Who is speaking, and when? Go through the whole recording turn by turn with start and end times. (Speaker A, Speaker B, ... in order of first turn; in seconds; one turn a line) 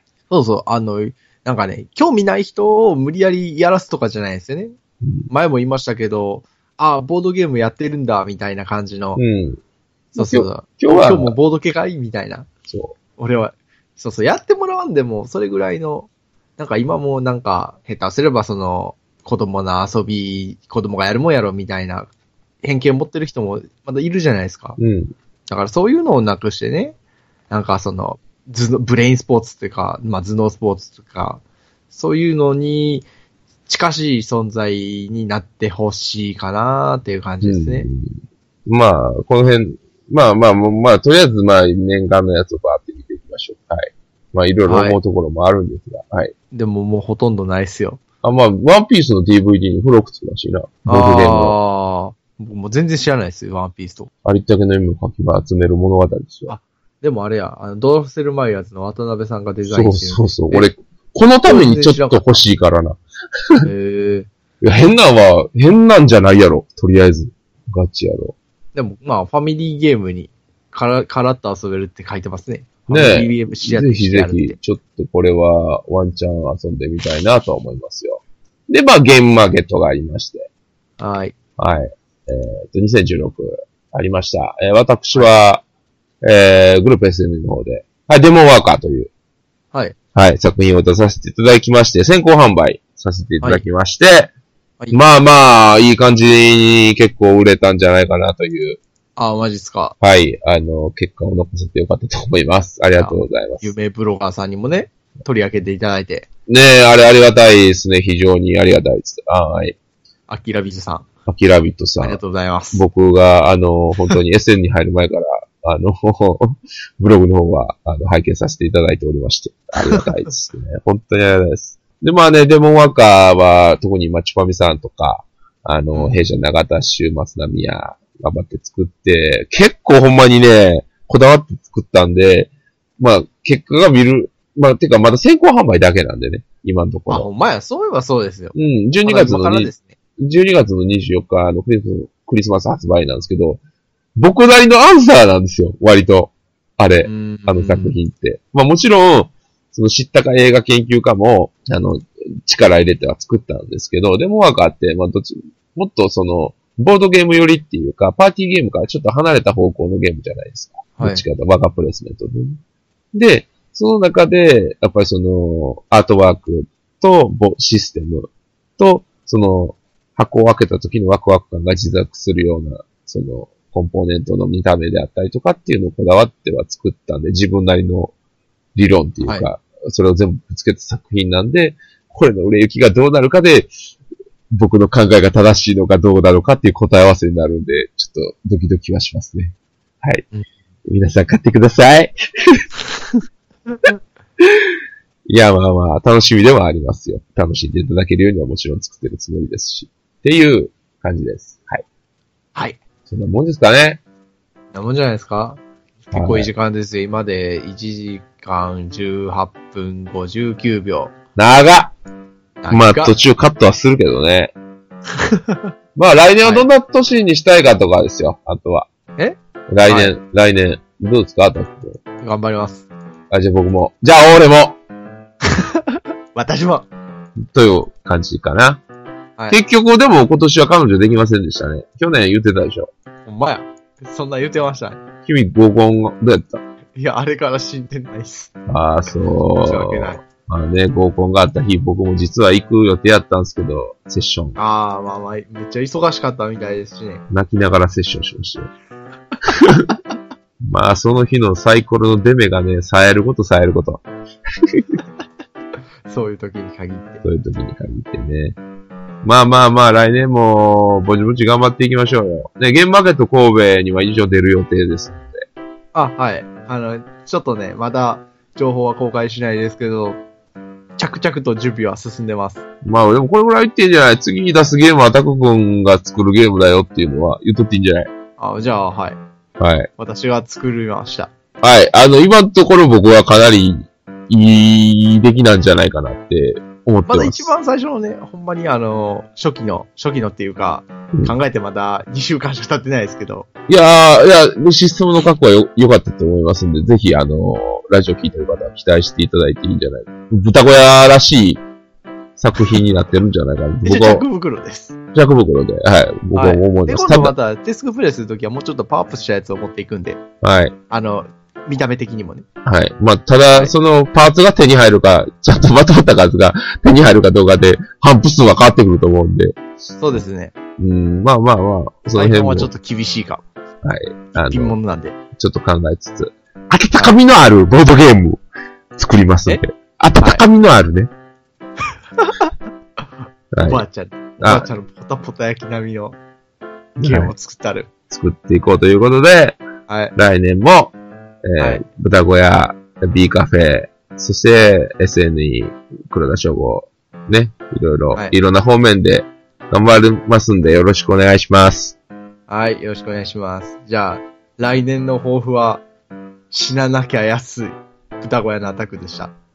Speaker A: 0.3-4.7
Speaker B: 5.0-5.3
Speaker A: 5.3-9.2
Speaker B: 9.2-9.6
Speaker A: 10.1-12.5
Speaker B: 10.2-11.3
Speaker B: 12.7-12.9
Speaker A: 13.2-22.1
Speaker A: 22.6-24.8
Speaker B: 24.8-25.1
Speaker A: 25.5-26.9
Speaker A: 27.5-33.1
Speaker A: 33.7-37.9
Speaker B: 37.4-46.3
Speaker A: 44.7-45.0
Speaker A: 46.5-48.0
Speaker B: 48.2-51.6
Speaker A: 50.9-54.1
Speaker B: 54.2-56.5
Speaker A: 56.5-60.7
Speaker B: 59.6-63.7
Speaker A: 61.4-62.4
Speaker A: 63.6-64.3
Speaker B: 64.6-68.3
Speaker A: 68.7-74.6
Speaker B: 72.9-80.5
Speaker A: 81.0-81.3
Speaker B: 81.6-85.6
Speaker B: 86.2-89.1
Speaker B: 90.1-94.3
Speaker B: 94.9-98.8
Speaker A: 99.2-99.9
Speaker B: 100.0-103.7
Speaker A: 103.0-106.3
Speaker B: 106.5-109.8
Speaker A: 110.3-111.1
Speaker B: 111.3-112.2
Speaker A: 112.0-112.8
Speaker B: 112.7-137.3
Speaker A: 125.9-126.3
Speaker A: 137.1-139.9
Speaker B: 138.5-143.6
Speaker B: 144.2-162.6
Speaker A: 147.0-148.0
Speaker A: 161.0-161.2
Speaker B: 163.1-178.1
Speaker B: 178.7-183.7
Speaker B: 184.5-190.2
Speaker B: 190.8-192.6
Speaker B: 194.4-194.7
Speaker B: 195.3-201.8
Speaker A: 202.5-202.8
Speaker B: 203.1-204.0
Speaker A: 204.7-211.1
Speaker B: 206.1-206.5
Speaker B: 211.3-211.9
Speaker A: 212.6-213.1
Speaker B: 212.7-214.5
Speaker A: 215.2-215.6
Speaker B: 215.9-218.9
Speaker A: 216.4-216.7
Speaker A: 219.2-220.1
Speaker B: 219.7-222.0
Speaker A: 222.2-222.9
Speaker B: 223.3-224.8
Speaker A: 225.5-226.9
Speaker B: 227.4-228.8
Speaker B: 229.5-232.9
Speaker A: 233.2-235.0
Speaker B: 235.2-236.6
Speaker A: 236.9-238.5
Speaker B: 238.7-244.6
Speaker A: 239.5-240.2
Speaker A: 244.6-247.2
Speaker B: 247.3-248.7
Speaker B: 249.6-249.9
Speaker B: 250.6-254.0
Speaker B: 254.6-255.0
Speaker A: 256.1-257.2
Speaker B: 257.2-258.6
Speaker B: 259.2-265.4
Speaker A: 265.9-270.2
Speaker A: 271.0-272.6
Speaker B: 272.8-278.1
Speaker A: 278.4-279.2
Speaker B: 279.6-279.9
Speaker A: 280.0-281.3
Speaker B: 281.6-287.5
Speaker A: 287.1-293.5
Speaker B: 293.7-301.6
Speaker B: 302.4-304.2
Speaker A: 303.8-305.0
Speaker B: 305.1-307.3
Speaker A: 306.3-310.2
Speaker B: 310.4-310.7
Speaker A: 310.9-312.4
Speaker B: 312.6-319.6
Speaker A: 320.0-320.5
Speaker B: 320.8-322.7
Speaker A: 322.1-323.4
Speaker B: 323.8-324.8
Speaker A: 324.3-325.1
Speaker B: 325.4-328.4
Speaker B: 328.9-331.1
Speaker A: 332.2-332.5
Speaker B: 333.5-333.8
Speaker A: 333.6-336.2
Speaker B: 334.4-334.7
Speaker B: 337.0-337.3
Speaker A: 337.0-337.9
Speaker B: 338.1-339.6
Speaker A: 339.9-340.1
Speaker B: 340.1-340.9
Speaker B: 341.4-351.9
Speaker A: 341.6-341.8
Speaker A: 352.5-355.8
Speaker A: 356.5-359.3